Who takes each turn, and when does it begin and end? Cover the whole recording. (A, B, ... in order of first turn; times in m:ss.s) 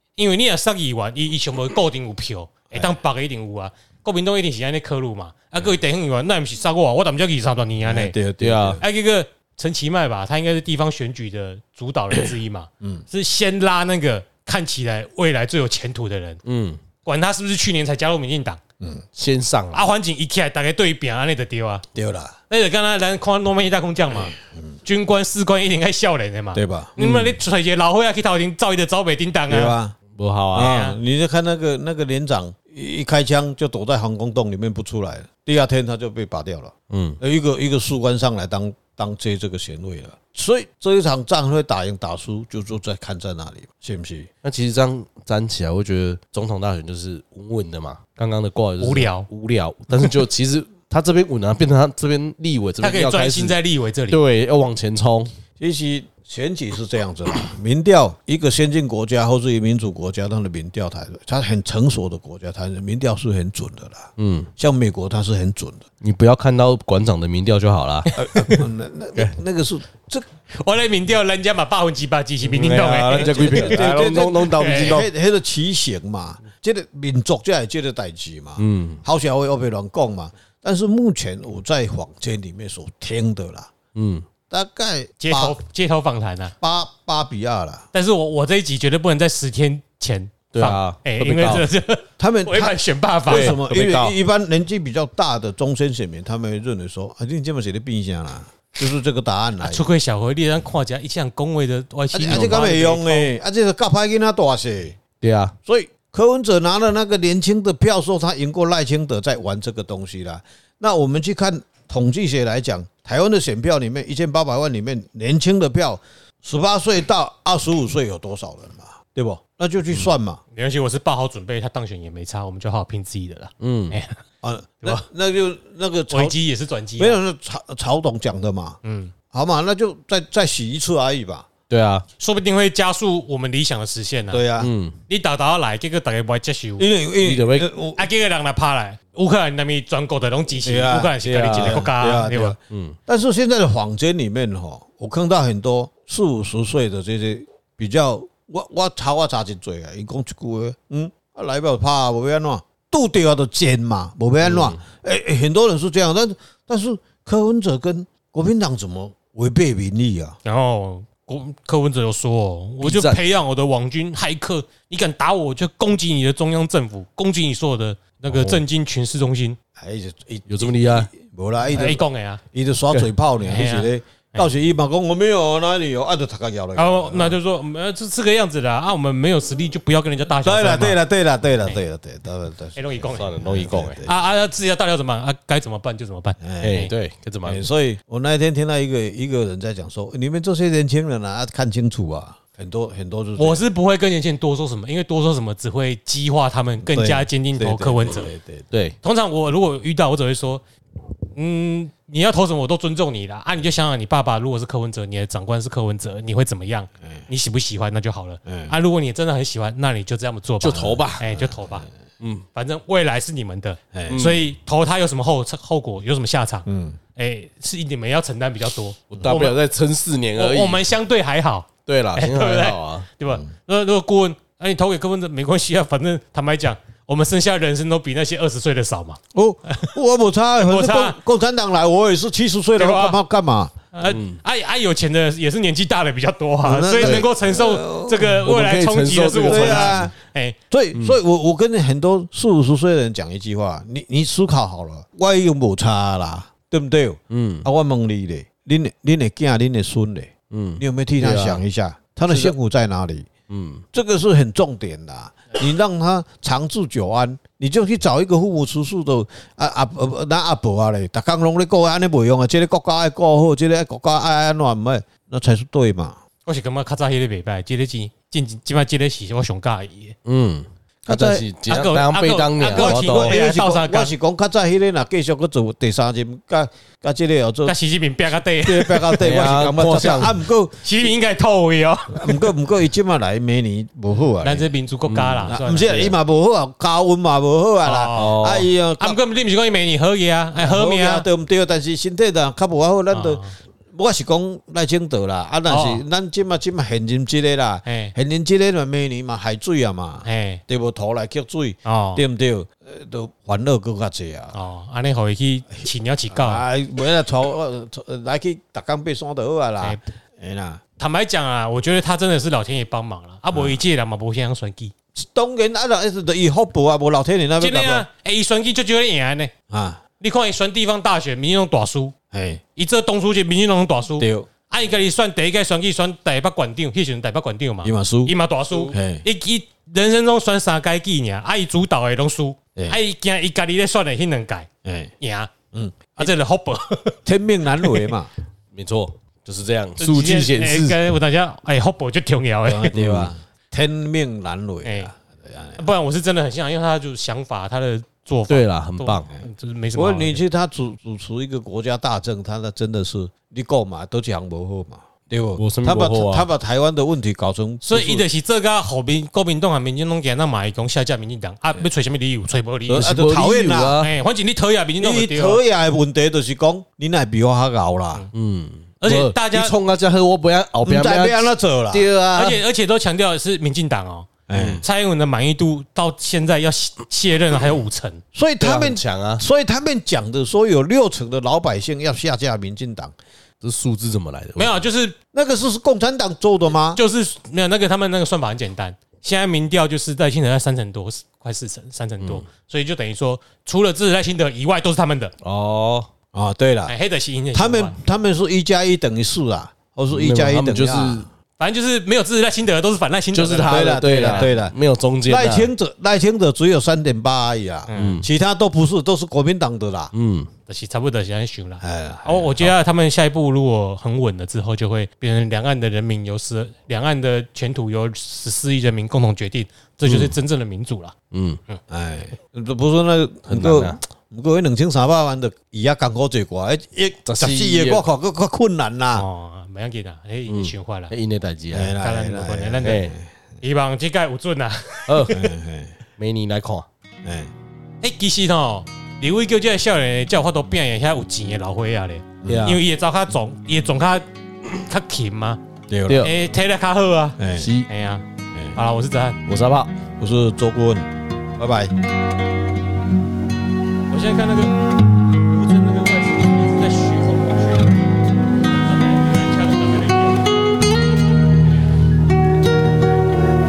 0:00.2-0:08.2 A
0:02.7-0:03.0 B
0:07.8-0:08.8 B
0:08.4-0:08.8 C
0:08.8-0:16.4 A
0:12.8-0:13.0 B
0:16.4-0:16.8 C
0:17.0-0:18.6 A
0:19.1-0:19.8 C
0:19.7-0:21.8 A
0:21.9-0:22.4 B
0:22.5-0:29.8 A
0:24.2-0:24.8 B
0:26.5-0:26.9 B
0:27.0-0:27.3 C
0:29.5-0:30.0 B
0:30.1-0:30.7 C
0:30.5-0:44.3 B
0:30.5-0:31.0 A
0:36.9-0:37.2 C
0:44.4-0:53.6 C
0:48.8-0:49.3 A
0:52.8-0:54.2 A
0:54.1-0:55.3 C
0:55.6-1:05.8 B
1:04.2-1:04.5 C
1:06.0-1:08.6 C
1:08.2-1:10.2 B
1:08.2-1:08.6 A
1:10.5-1:15.0 A
1:12.4-1:15.1 C
1:13.1-1:23.7 B
1:18.6-1:19.0 C
1:23.9-1:24.2 C
1:24.5-1:25.6 B
1:25.2-1:26.5 A
1:26.6-1:27.9 B
1:27.9-1:33.6 A
1:30.5-1:31.6 C
1:32.2-1:39.9 B
1:33.3-1:34.1 C
1:39.6-1:43.3 A
1:42.1-1:45.0 B
1:45.2-1:45.6 C
1:45.6-2:00.4 B
2:00.5-2:04.2 A
2:03.6-2:04.0 C
2:04.4-2:06.3 B
2:06.1-2:07.2 A
2:07.0-2:08.8 B
2:08.8-2:09.1 A
2:09.3-2:11.5 B
2:11.7-2:12.0 C
2:12.2-2:14.4 A
2:14.3-2:14.7 B
2:14.6-2:15.0 C
2:15.1-2:16.9 A
2:16.8-2:18.0 B
2:17.2-2:17.7 C
2:18.0-2:22.6 A
2:20.6-2:40.4 B
2:22.7-2:23.0 C
2:34.4-2:34.8 C
2:40.4-2:49.6 A
2:42.8-2:43.2 C
2:48.3-2:48.6 C
2:49.8-2:57.4 B
2:50.5-2:51.1 C
2:51.7-2:52.4 A
2:53.4-2:54.5 A
2:56.7-3:01.0 A
3:00.4-3:04.2 B
3:02.8-3:03.3 A
3:03.1-3:04.0 C
3:04.0-3:06.9 A
3:06.4-3:06.8 B
3:06.6-3:07.7 C
3:07.4-3:13.6 B
3:13.4-3:18.3 A
3:16.8-3:18.6 B
3:18.7-3:19.0 C
3:19.0-3:20.6 A
3:21.3-3:31.9 A
3:28.4-3:28.7 B
3:30.6-3:31.3 C
3:30.7-3:31.8 B
3:32.2-3:32.4 C
3:32.5-3:39.6 A
3:33.9-3:34.2 B
3:34.1-3:34.4 C
3:36.7-3:37.0 B
3:39.1-3:40.8 C
3:39.1-3:39.4 B
3:40.4-3:49.9 A
3:41.8-3:43.1 C
3:49.3-3:53.7 B
3:50.6-3:51.2 A
3:52.8-3:53.2 A
3:53.9-4:00.6 A
3:54.0-3:54.4 C
3:56.6-3:58.3 B
3:57.0-3:57.3 C
3:58.4-4:00.1 C
3:59.4-4:00.1 B
4:00.7-4:13.3 B
4:07.3-4:07.7 C
4:10.5-4:11.6 C
4:12.3-4:12.6 C
4:13.5-4:13.8 C
4:13.9-4:26.2 B
4:26.4-4:30.2 A
4:30.2-4:33.4 C
4:31.0-4:31.4 B
4:31.7-4:34.1 A
4:32.7-4:37.8 B
4:37.6-4:39.3 A
4:38.6-4:41.1 B
4:39.2-4:40.4 C
4:40.8-4:42.5 A
4:42.1-4:44.7 B
4:44.4-4:46.2 A
4:45.1-4:45.6 C
4:45.5-4:49.2 B
4:47.8-4:48.4 A
4:48.1-4:48.7 C
4:49.0-4:51.2 A
4:50.6-4:53.4 B
4:53.1-4:53.6 A
4:53.9-5:04.6 B
4:55.7-4:56.0 A
4:57.8-4:58.1 A
5:00.2-5:00.6 A
5:01.8-5:02.2 A
5:04.5-5:06.6 A
5:05.7-5:10.8 B
5:11.0-5:14.9 A
5:13.5-5:13.8 B
5:15.2-5:18.0 B
5:17.6-5:19.5 A
5:19.7-5:20.0 B
5:20.2-5:22.1 A
5:22.3-5:22.6 B
5:22.8-5:34.7 A
5:24.2-5:24.5 B
5:27.8-5:28.3 B
5:28.9-5:29.2 B
5:34.8-5:35.1 B
5:35.2-5:35.5 A
5:35.7-5:36.3 B
5:36.2-5:37.2 A
5:37.2-5:38.3 B
5:37.7-5:38.1 A
5:38.7-5:41.0 C
5:40.0-5:43.0 A
5:42.6-5:45.9 B
5:42.9-5:43.3 C
5:44.8-5:45.1 A
5:45.8-5:50.4 A
5:48.5-5:49.3 C
5:49.9-5:58.2 B
5:55.6-5:56.5 C
5:57.8-6:03.1 A
6:02.9-6:04.0 B
6:02.9-6:04.1 C
6:04.0-6:05.6 A
6:05.0-6:08.2 B
6:08.3-6:12.5 C
6:09.0-6:09.7 A
6:10.8-6:12.5 B
6:12.3-6:18.2 A
6:14.5-6:14.8 B
6:14.5-6:14.8 C
6:18.3-6:23.1 B
6:18.6-6:19.4 C
6:23.6-6:24.8 C
6:24.6-6:25.2 A
6:25.3-6:27.0 B
6:26.9-6:35.3 A
6:35.4-6:36.1 C
6:36.3-6:36.9 B
6:36.9-6:38.0 A
6:37.5-6:41.3 B
6:40.1-6:41.3 C
6:41.6-6:44.5 A
6:43.3-6:45.7 C
6:43.7-6:44.7 B
6:45.2-6:50.1 B
6:47.9-6:48.2 A
6:47.9-6:48.3 C
6:50.1-6:50.5 C
6:50.7-7:01.1 A
6:51.8-6:52.7 B
7:00.0-7:00.3 C
7:01.3-7:01.6 C
7:01.9-7:09.2 B
7:03.5-7:04.0 C
7:07.2-7:08.0 C
7:09.2-7:11.1 A
7:10.5-7:11.9 C
7:11.7-7:13.3 B
7:12.0-7:13.0 A
7:12.8-7:13.2 C
7:13.6-7:15.5 A
7:15.1-7:15.4 C
7:15.3-7:16.0 B
7:16.2-7:16.9 C
7:17.2-7:17.5 B
7:18.0-7:25.6 A
7:22.4-7:22.7 B
7:22.4-7:22.8 C
7:25.9-7:26.3 B
7:26.1-7:26.3 C
7:26.2-7:29.4 A
7:27.4-7:27.7 B
7:27.5-7:27.9 C
7:29.4-7:29.9 C
7:30.2-7:31.9 B
7:34.1-7:34.8 A
7:35.4-7:40.5 A